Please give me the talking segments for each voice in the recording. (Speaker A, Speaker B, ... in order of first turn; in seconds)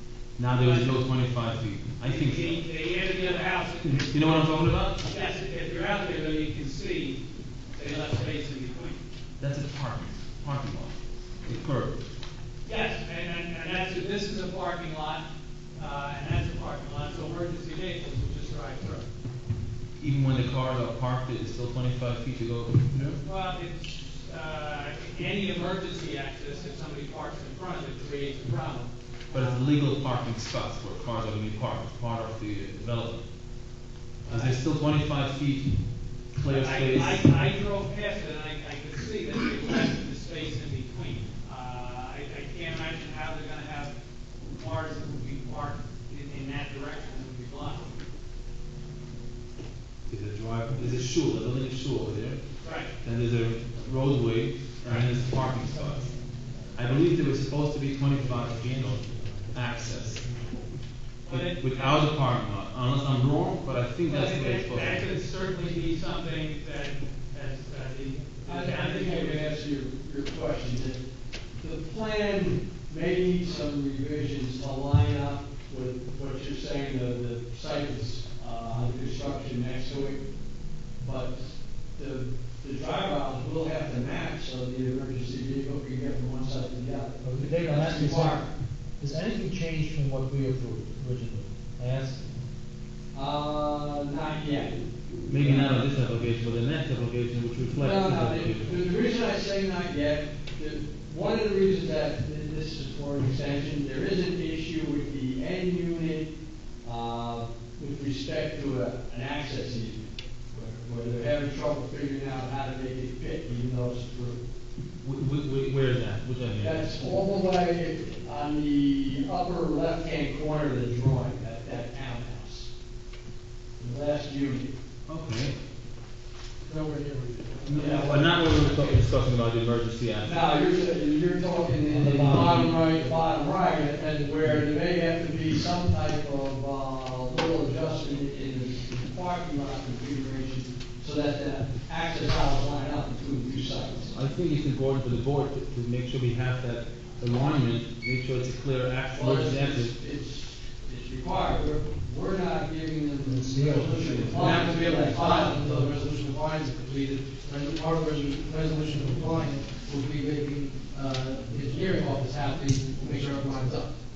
Speaker A: 0.3-2.6, 4.1-5.0, 9.4-12.0, 20.0-23.2, 29.3-33.3, 34.3-35.7, 36.3-37.3, 50.1-56.1, 56.7-60.3, 61.3-65.0, 95.3-98.8, 115.0-116.9, 125.1-125.6, 127.6-130.4, 144.1-150.0, 154.0-154.6
Speaker B: 0.5-1.1, 2.0-7.2, 7.7-9.0, 12.6-15.2, 15.8-19.1, 23.2-29.7, 34.2-34.6, 36.4-43.9, 44.5-47.9, 52.6-52.9, 61.2-62.1, 64.0-69.6
Speaker C: 68.5-71.0, 71.6-80.2, 80.9-88.5, 93.1-95.7, 97.7-106.3, 106.8-114.4, 116.6-122.7, 123.8-124.7, 127.0-129.0, 130.2-144.2, 149.1-156.3, 158.8-159.2, 161.3-163.9
Speaker D: 87.2-88.5, 89.0-92.3, 131.9-133.2, 153.2-154.6
Speaker E: 126.7-127.4, 154.4-163.9